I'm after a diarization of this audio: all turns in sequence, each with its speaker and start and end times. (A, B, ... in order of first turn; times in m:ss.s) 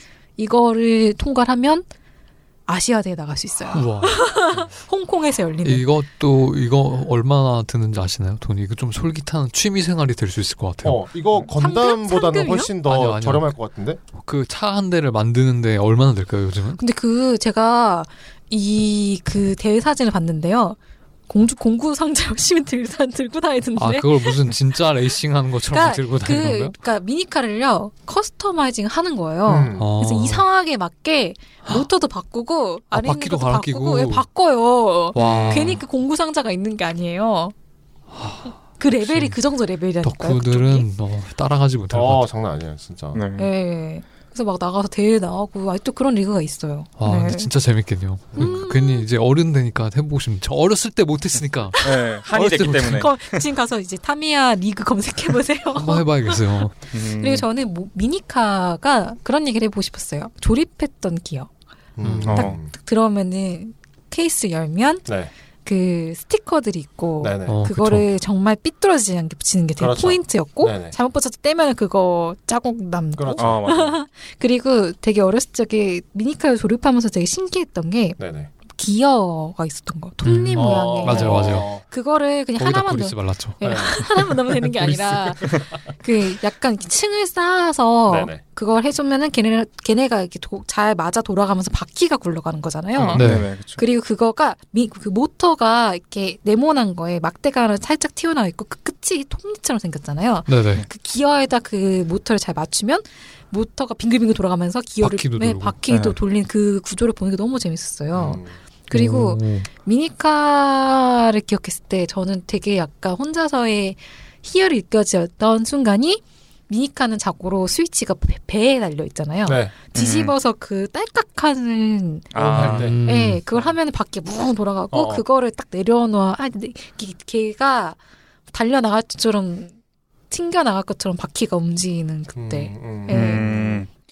0:00.4-0:01.9 A
0:02.7-0:05.9 A
0:03.7-0:04.6 B
0:05.6-0:11.0 B
0:10.8-0:14.0 C
0:11.6-0:12.7 A
0:12.8-0:13.5 B
0:14.2-0:16.8 B
0:16.8-0:20.8 A
0:21.3-0:24.5 A
0:23.8-0:26.8 B
0:25.7-0:37.5 A
0:29.5-0:29.9 C
0:29.8-0:30.4 B
0:32.9-0:34.2 B
0:35.1-0:35.8 B
0:35.2-0:35.8 D
0:38.1-0:39.4 B
0:38.8-0:40.9 A
0:40.0-0:42.2 B
0:41.9-0:43.2 C
0:43.1-0:43.5 D
0:43.4-0:47.5 A
0:47.0-0:51.8 B
0:48.4-0:49.1 A
0:51.8-0:53.4 D
0:52.3-0:53.1 B
0:52.8-0:56.4 A
0:55.8-0:56.8 B
0:56.9-0:57.5 D
0:57.2-1:01.5 A
1:02.0-1:02.7 C
1:02.0-1:02.5 B
1:02.3-1:02.5 D
1:02.4-1:05.1 A
1:05.1-1:05.3 C
1:05.6-2:02.3 A
1:07.2-1:07.6 C
1:07.5-1:08.1 B
1:09.8-1:10.9 C
1:13.2-1:13.7 C
1:13.4-1:13.9 D
1:18.2-1:18.5 C
1:20.2-1:21.7 B
1:20.5-1:21.8 C
1:22.6-1:23.6 B
1:23.6-1:25.5 C
1:28.1-1:28.4 C
1:33.0-1:33.8 D
1:33.2-1:33.5 B
1:40.5-1:40.8 B
1:45.0-1:45.8 B
1:45.9-1:46.2 D
1:48.1-1:48.6 C
1:48.9-1:49.7 B
1:59.4-1:59.7 C
1:59.9-2:00.3 D
2:02.3-2:03.0 D
2:02.4-2:03.0 C
2:02.5-2:03.4 B
2:03.0-2:08.0 A
2:04.9-2:05.2 C
2:08.5-2:09.7 A
2:10.3-2:13.5 A
2:12.4-2:13.8 C
2:13.1-2:13.9 D